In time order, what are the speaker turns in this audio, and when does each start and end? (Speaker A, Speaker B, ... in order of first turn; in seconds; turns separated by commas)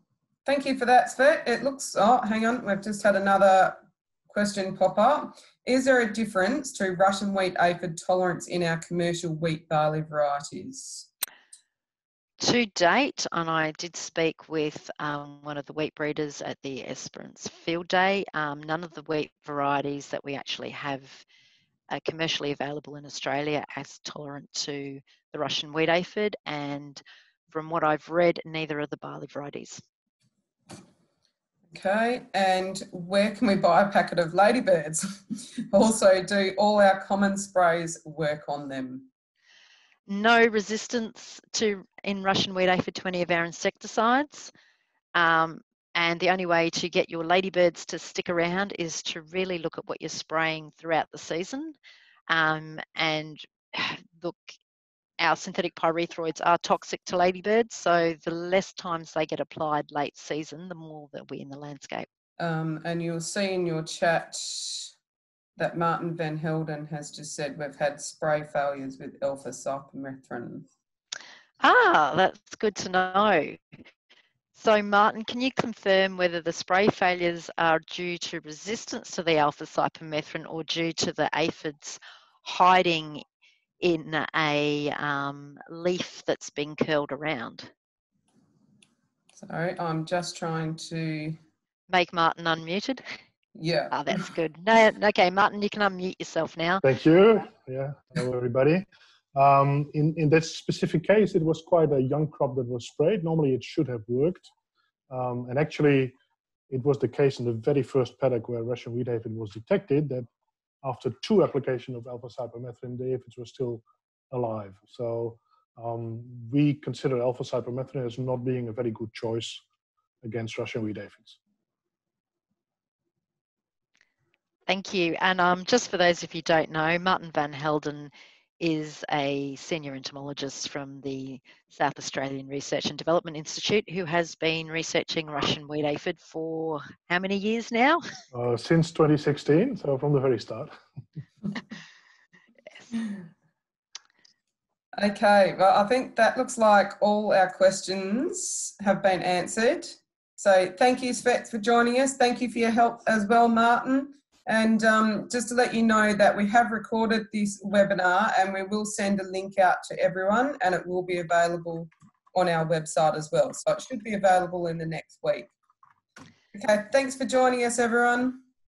Speaker A: 0.5-11.1, Speaker B: 12.4-21.2, Speaker B: 21.9-29.8, Speaker A: 31.7-39.1, Speaker B: 40.1-44.5, Speaker B: 45.1-51.8, Speaker B: 52.3-54.5, Speaker B: 55.2-62.1, Speaker A: 62.4-64.9, Speaker A: 65.6-70.7, Speaker B: 71.6-73.6, Speaker B: 74.5-83.2, Speaker B: 83.8-87.7, Speaker A: 89.3-91.4, Speaker B: 91.9-93.0, Speaker A: 93.5-94.2, Speaker B: 93.9-96.8, Speaker C: 96.8-104.5, Speaker C: 105.1-106.2, Speaker C: 106.7-110.3, Speaker C: 110.8-119.6, Speaker C: 120.2-121.4, Speaker B: 124.7-138.0, Speaker C: 138.3-140.8, Speaker A: 144.9-165.5, Speaker A: 166.5-168.4